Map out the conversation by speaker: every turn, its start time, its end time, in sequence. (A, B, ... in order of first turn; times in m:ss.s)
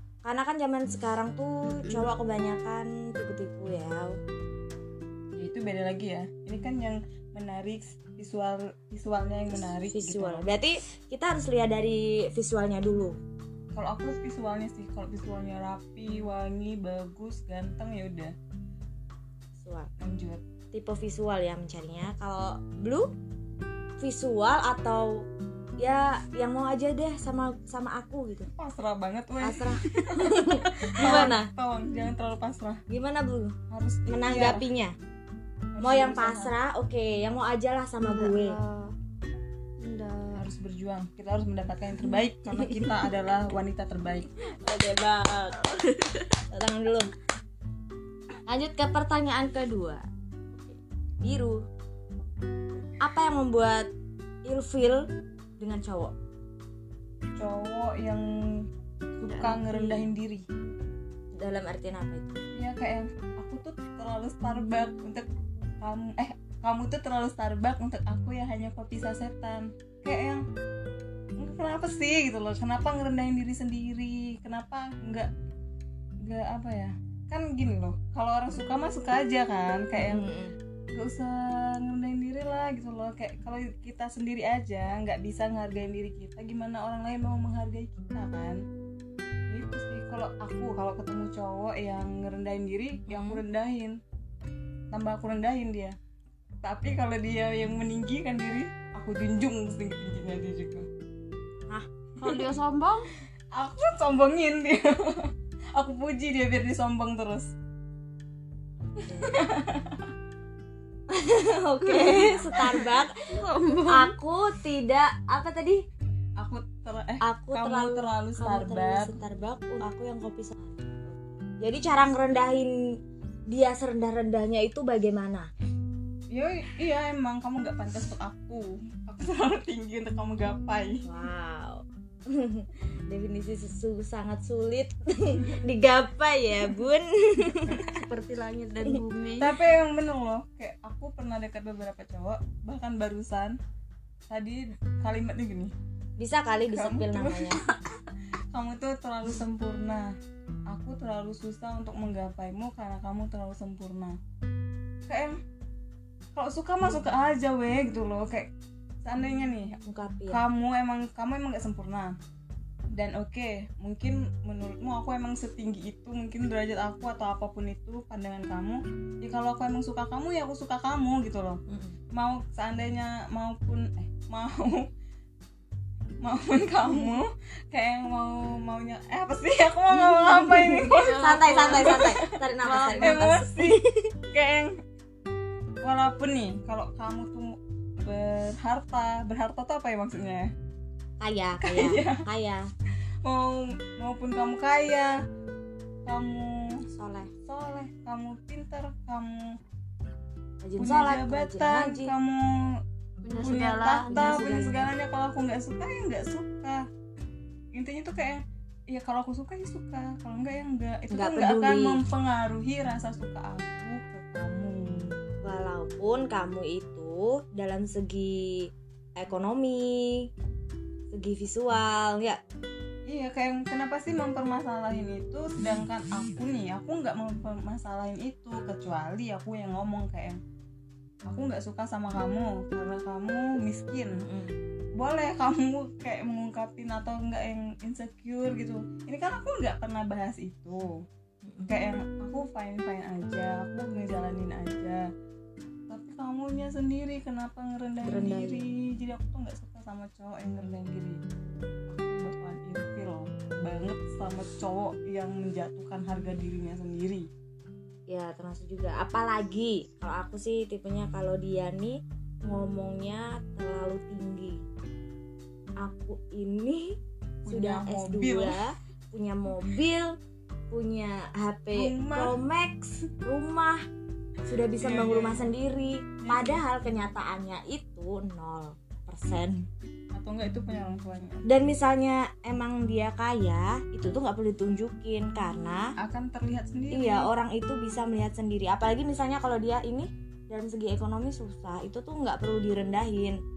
0:00.2-0:04.2 A
0:05.4-0:10.5 B
0:09.6-0:13.2 A
0:13.7-0:18.3 B
0:19.6-0:19.9 A
0:20.0-0:20.4 B
0:20.7-0:23.1 A
0:24.0-0:25.2 A
0:25.8-0:28.5 A
0:28.5-0:32.8 B
0:29.4-0:31.5 A
0:31.0-0:31.3 C
0:32.9-0:33.5 A
0:33.7-0:34.6 B
0:34.1-0:35.0 A
0:35.8-0:36.6 B
0:35.8-0:38.6 A
0:38.1-0:38.9 C
0:39.8-0:40.4 C
0:40.3-0:44.3 B
0:44.6-0:45.8 A
0:46.4-0:47.1 A
0:48.4-0:50.0 A
0:51.2-0:51.6 A
0:53.0-0:53.9 A
0:54.4-0:55.1 A
0:55.6-0:56.1 A
0:57.4-0:58.7 B
0:59.2-1:00.4 B
0:59.3-0:59.7 C
0:59.7-1:00.0 A
1:01.3-1:02.4 A
1:02.5-1:05.3 B
1:05.8-1:10.4 B
1:11.4-1:15.3 B
1:16.2-1:20.3 B
1:20.0-1:20.5 A
1:20.9-1:28.6 B
1:29.5-1:34.0 B
1:33.0-1:33.4 A
1:34.9-1:36.0 B
1:36.6-1:40.9 B
1:42.2-1:42.5 B
1:42.2-1:43.1 C
1:43.5-1:47.5 B
1:49.0-1:49.3 A
1:49.0-1:50.1 B
1:51.1-1:53.3 A
1:51.8-1:53.0 B
1:53.3-1:54.1 C
1:53.8-1:55.8 A
1:56.4-1:59.1 B
1:57.2-2:02.8 A
2:03.5-2:05.5 A
2:06.3-2:11.0 B
2:11.0-2:18.0 A
2:17.8-2:19.5 C
2:19.4-2:23.6 B
2:24.3-2:25.7 B
2:26.2-2:27.6 A
2:26.7-2:27.8 B
2:28.5-2:30.1 B
2:30.7-2:34.2 B
2:35.1-2:35.4 B
2:36.3-2:38.5 B
2:39.0-2:42.2 B
2:39.8-2:40.4 A
2:42.9-2:51.6 B
2:51.7-2:52.0 A
2:52.1-2:54.9 B
2:56.2-3:03.8 B
2:59.9-3:04.1 A
3:00.8-3:02.2 C
3:04.3-3:04.7 B
3:05.8-3:10.5 B
3:11.2-3:12.7 A
3:11.6-3:12.2 B
3:13.2-3:15.1 B
3:16.0-3:16.7 B
3:16.9-3:17.3 A
3:17.4-3:19.6 B
3:20.6-3:22.1 A
3:20.8-3:22.6 B
3:23.2-3:24.4 C
3:23.4-3:26.8 B
3:24.1-3:24.9 A
3:27.7-3:35.2 B
3:31.1-3:32.0 A
3:35.4-3:40.3 A
3:41.1-3:42.4 A
3:43.1-3:50.4 B
3:51.3-3:54.2 B
3:54.2-3:54.5 A
3:55.0-4:01.0 B
4:01.4-4:01.7 A
4:01.7-4:05.0 B
4:05.9-4:11.2 B
4:08.0-4:08.7 A
4:11.9-4:17.3 B
4:18.1-4:24.6 A
4:25.8-4:30.2 A
4:27.4-4:28.6 B
4:30.7-4:33.8 A
4:31.7-4:32.4 B
4:34.4-4:39.6 A
4:34.8-4:35.5 B
4:36.2-4:36.6 B
4:40.1-4:41.4 B
4:41.4-4:45.9 A
4:46.0-4:47.3 B
4:46.9-4:53.4 A